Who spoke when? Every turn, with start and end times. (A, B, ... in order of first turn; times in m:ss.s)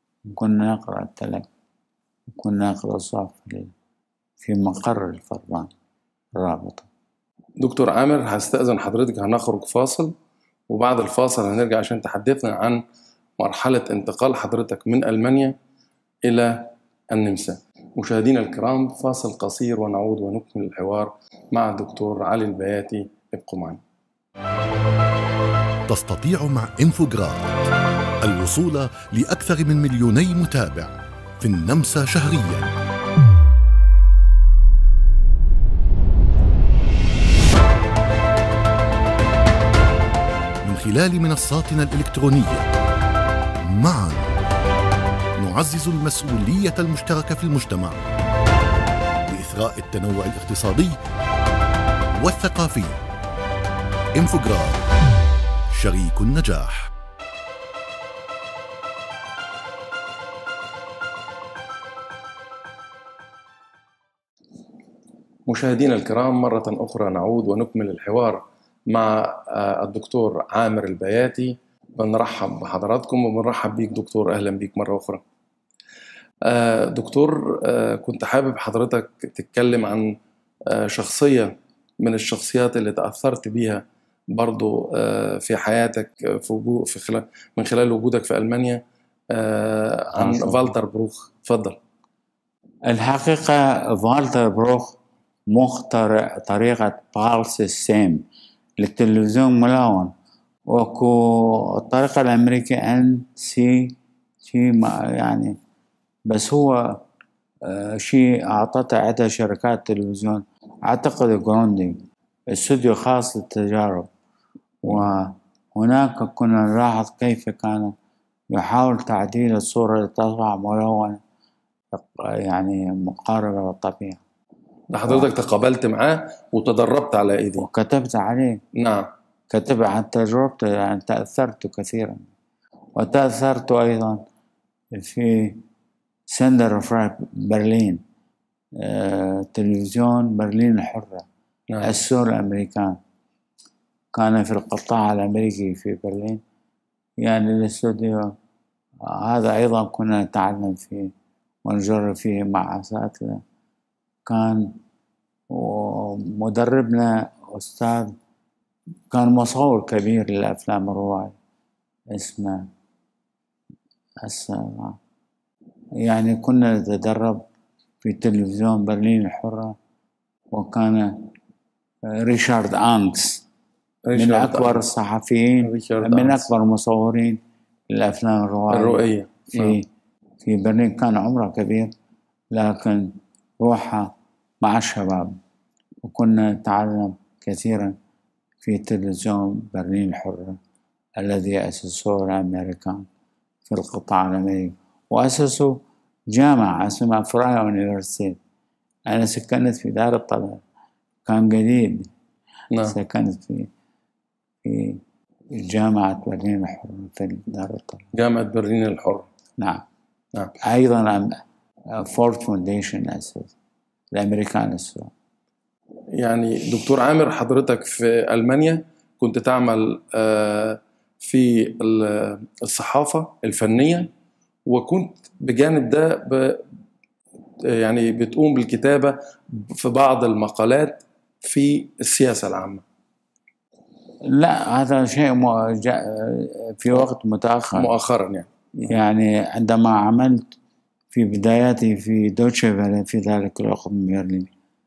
0:00.3-0:01.5 A
0:02.3-0:03.7 A
0:04.4-0:05.7 A
0:06.4-0:06.9 A
0:07.6-0:10.1 B
0:10.7-0:12.8 B
0:13.4-0:15.6 B
0:16.2-0:23.8 B
0:25.9-0:27.5 C
0:28.2-0:32.7 C
0:40.6-0:42.7 C
0:43.6-0:44.4 C
0:45.4-0:48.1 C
0:49.3-0:51.0 C
0:52.2-0:53.0 C
0:54.2-0:54.8 C
0:55.7-0:56.9 C
1:05.5-1:15.2 B
1:16.4-1:20.2 B
1:20.7-1:31.8 B
1:30.2-1:30.7 A
1:32.9-1:35.0 A
1:35.5-1:38.2 A
1:38.8-1:40.1 A
1:40.7-1:45.6 A
1:46.3-1:47.0 A
1:47.6-1:54.1 A
1:54.8-1:57.9 A
1:58.5-2:01.2 A
2:01.9-2:04.2 A
2:04.9-2:07.7 B
2:07.6-2:08.6 A
2:08.8-2:09.1 B
2:09.5-2:12.3 A
2:13.0-2:14.2 A
2:14.9-2:15.6 A
2:16.3-2:18.0 A
2:18.8-2:21.3 A
2:21.8-2:23.0 A
2:24.1-2:26.4 A
2:27.2-2:28.4 A
2:29.0-2:31.1 A
2:31.6-2:33.4 A
2:34.3-2:34.8 A
2:35.5-2:38.2 A
2:39.1-2:41.4 A
2:42.1-2:42.7 A
2:44.2-2:45.0 A
2:46.0-2:47.4 A
2:48.0-2:49.8 A
2:50.5-2:51.3 A
2:52.1-2:53.4 A
2:54.1-2:54.8 B
2:54.2-2:59.9 A
2:55.6-2:56.4 B
2:58.7-2:59.8 B
3:00.4-3:01.9 A
3:02.5-3:05.4 A
3:06.0-3:08.0 A
3:08.6-3:10.6 A
3:11.2-3:13.1 A
3:13.7-3:18.4 A
3:19.1-3:20.6 A
3:21.2-3:22.1 A
3:22.7-3:23.0 B
3:22.9-3:23.7 A
3:24.6-3:25.0 A
3:25.5-3:28.1 A
3:28.1-3:29.3 B
3:29.6-3:29.8 A
3:30.6-3:31.4 A
3:31.9-3:33.5 A
3:34.1-3:35.1 A
3:36.2-3:44.1 B
3:44.7-3:46.7 B
3:47.7-3:52.8 B
3:54.2-3:57.9 A
3:57.8-3:58.9 B
3:58.9-4:00.5 A
4:01.1-4:04.5 A